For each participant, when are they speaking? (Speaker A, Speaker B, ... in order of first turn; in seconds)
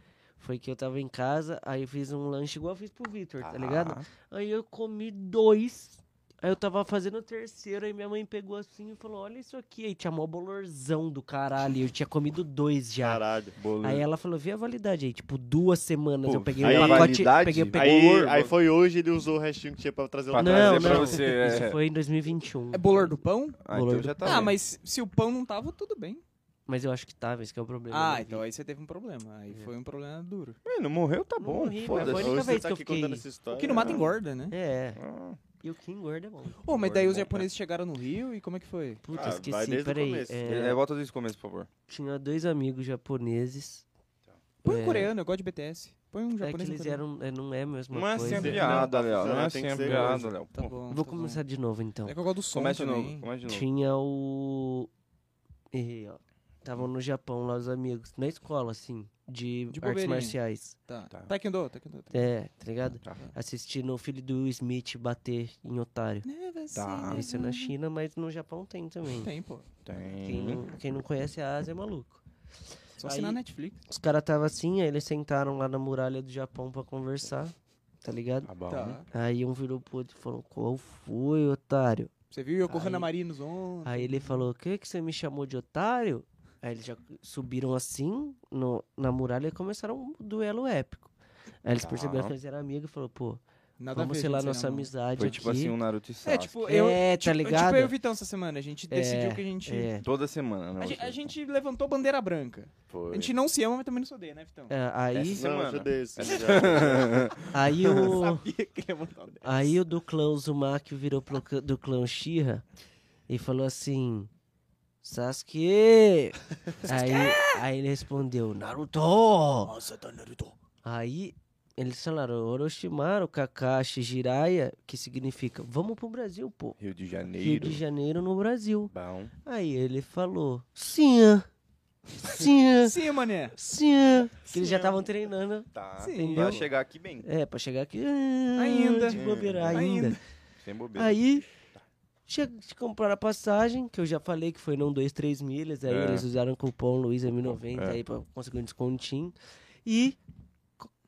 Speaker A: 0.4-13.2, 13.8-18.0, 20.4-23.1, 23.7-24.5, 26.7-28.4, 31.4-33.2, 34.5-35.0, 35.6-36.6, 39.0-40.8, 41.9-43.8, 44.6-45.1, 46.4-48.9, 49.9-50.1, 50.9-52.2, 53.5-54.9, 55.7-60.8, 62.1-66.2, 67.1-69.3, 70.2-72.2, 73.0-78.5, 79.1-82.1, 82.7-83.1, 83.8-91.1, 91.6-93.4, 93.9-95.8, 96.7-97.9, 98.9-100.0, 104.7-105.5, 107.5-108.4, 109.4-112.6, 113.3-114.3, 115.0-119.7, 120.8-126.8, 127.4-128.9, 129.4-131.5, 132.2-132.9, 133.5-136.7, 137.2-140.2, 140.9-141.5, 142.3-150.2
Speaker B: 3.4-4.0, 13.6-14.0, 16.2-18.5, 20.3-21.8, 23.6-24.6, 30.6-32.5, 33.8-34.1, 35.0-35.4, 36.7-37.5, 40.4-41.7, 47.9-50.8, 52.5-53.7, 66.7-67.2, 69.8-70.6, 78.4-79.0, 91.8-92.3, 95.2-96.5, 100.0-101.2, 102.9-103.3, 105.1-107.3, 126.8-127.8, 128.9-129.3, 134.6-134.9, 135.7-137.3, 139.1-139.9, 140.6-141.8, 145.9-146.2, 147.4-148.0
Speaker C: 13.0-13.5, 16.6-21.3, 31.9-34.1, 39.1-40.7, 48.2-50.3, 105.3-107.3
Speaker D: 22.7-23.6, 24.2-26.2, 27.9-30.6, 33.5-34.5, 36.6-39.0, 44.6-47.0, 49.9-51.4, 52.1-53.3, 59.7-60.4, 60.9-62.3, 66.2-67.7, 69.2-69.6, 73.0-73.8, 78.7-79.0, 82.3-84.5, 93.8-94.9, 96.2-99.9, 100.8-104.7, 106.2-109.7, 116.8-117.6, 119.7-120.5, 132.4-133.5, 136.0-136.6, 138.6-140.2